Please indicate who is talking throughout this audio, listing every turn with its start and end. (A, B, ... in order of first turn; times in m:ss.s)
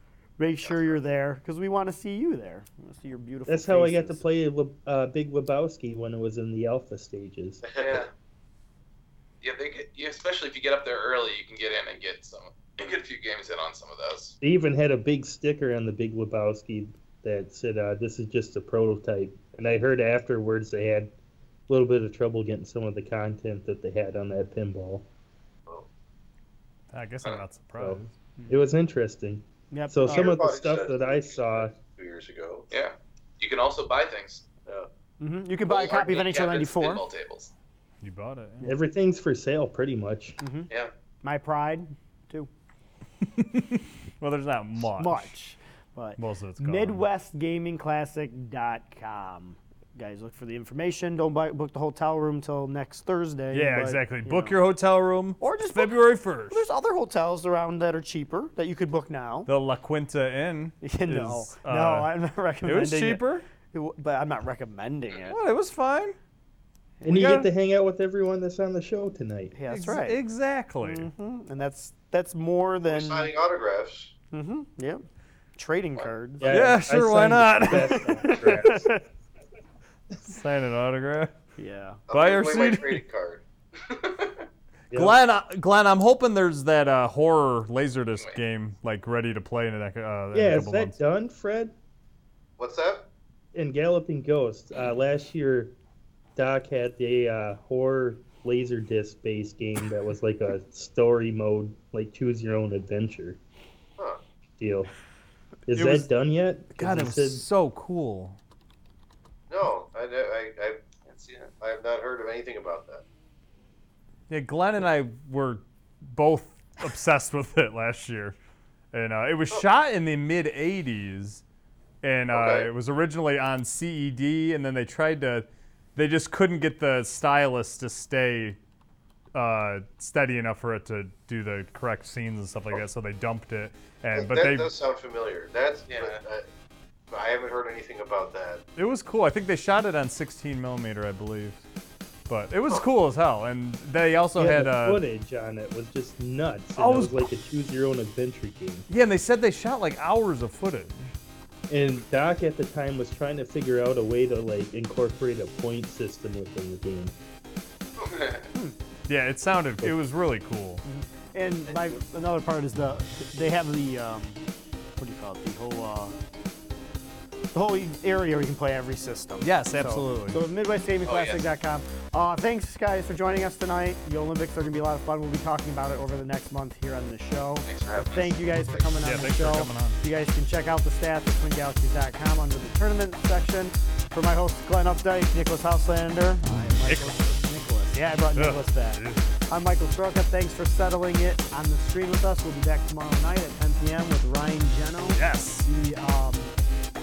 0:00.4-0:04.2 A
0:00.6-0:01.0 B
0:03.5-0:07.6 C
0:07.6-0:08.1 B
0:07.8-0:08.1 D
0:09.4-0:14.4 D
0:14.4-0:21.1 C
0:21.7-0:25.0 C
0:26.9-0:28.0 E
0:27.8-0:31.8 C
0:29.7-0:30.4 A
0:30.0-0:32.7 B
0:32.7-0:34.4 D
0:35.2-0:37.0 A
0:35.7-0:37.5 D
0:38.0-0:38.7 E
0:38.6-0:40.4 C
0:40.4-0:40.7 A
0:41.2-0:42.5 A
0:43.2-0:45.3 E
0:44.9-0:54.6 A
0:46.2-0:47.0 E
0:53.5-0:56.6 E
0:55.4-0:59.5 A
0:59.4-1:03.4 E
1:00.8-1:05.4 A
1:05.2-1:06.2 E
1:07.0-1:07.3 A
1:07.0-1:09.6 C
1:07.1-1:07.5 E
1:09.5-1:10.2 A
1:09.7-1:11.1 E
1:10.8-1:13.3 A
1:12.8-1:14.1 B
1:14.3-1:15.0 A
1:15.6-1:16.6 A
1:16.4-1:19.0 C
1:16.4-1:18.8 E
1:17.6-1:19.0 A
1:20.2-1:21.3 E
1:21.6-1:22.0 A
1:22.1-1:23.0 E
1:22.1-1:23.4 B
1:23.9-1:24.4 D
1:24.9-1:25.2 C
1:24.9-1:31.0 E
1:30.3-1:31.7 C
1:32.6-1:33.1 B
1:33.5-1:35.8 C
1:36.4-1:43.4 C
1:44.6-1:44.9 C
1:45.7-1:47.4 C
1:45.7-1:46.1 E
1:46.7-1:48.4 E
1:49.5-1:50.8 B
1:51.0-1:51.5 D
1:51.6-1:53.0 B
1:54.3-1:58.3 E
1:58.9-2:01.4 E
2:02.0-2:08.6 E
2:02.3-2:02.7 B
2:09.3-2:14.7 E
2:14.1-2:16.4 B
2:15.9-2:16.2 D
2:17.1-2:18.6 B
2:18.8-2:21.6 E
2:22.3-2:25.0 E
2:24.4-2:28.9 C
2:26.8-2:27.3 E
2:28.9-2:31.1 E
2:31.7-2:37.1 C
2:38.0-2:38.5 D
2:39.1-2:40.8 E
2:40.8-2:44.4 A
2:41.7-2:42.0 B
2:45.0-2:46.1 A
2:47.5-3:16.5 A
2:49.4-2:50.4 E
2:51.0-2:51.4 D
2:57.6-2:58.3 D
2:57.9-2:58.9 B
2:59.0-3:00.0 E
3:06.4-3:07.3 E
3:08.3-3:09.3 E
3:15.1-3:15.7 E